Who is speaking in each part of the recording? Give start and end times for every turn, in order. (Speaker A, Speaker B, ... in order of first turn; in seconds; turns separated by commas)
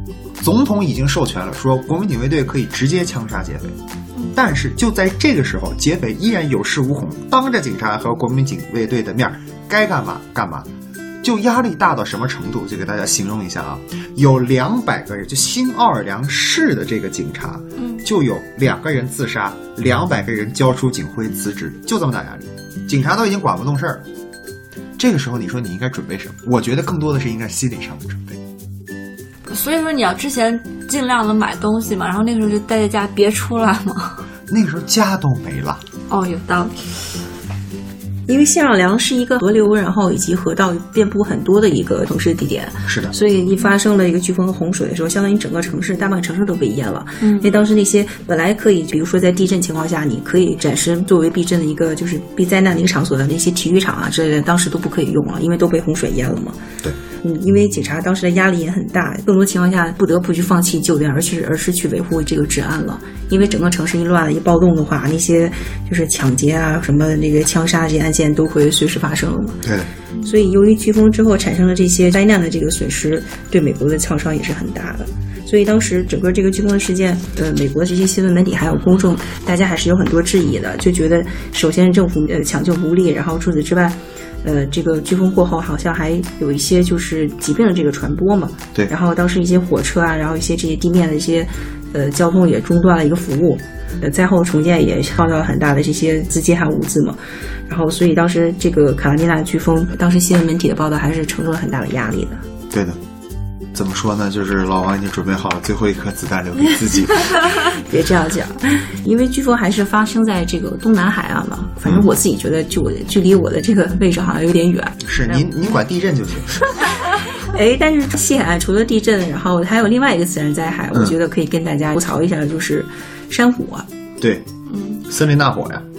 Speaker A: 0.4-3.8, Speaker A: 4.3-10.7, Speaker A: 11.2-24.0, Speaker B: 17.8-18.1, Speaker A: 25.0-28.4, Speaker B: 29.5-34.2, Speaker A: 34.5-35.8, Speaker B: 36.1-36.8, Speaker C: 38.3-56.6, Speaker A: 42.9-43.1, Speaker C: 57.2-69.7, Speaker A: 69.6-69.9, Speaker C: 70.2-97.2, Speaker C: 97.7-102.4, Speaker A: 102.7-103.0, Speaker A: 103.7-107.7, Speaker C: 107.5-115.5, Speaker A: 111.9-112.1, Speaker A: 115.0-116.7, Speaker C: 116.8-123.9, Speaker A: 124.2-124.5, Speaker B: 124.7-125.0, Speaker A: 125.0-125.8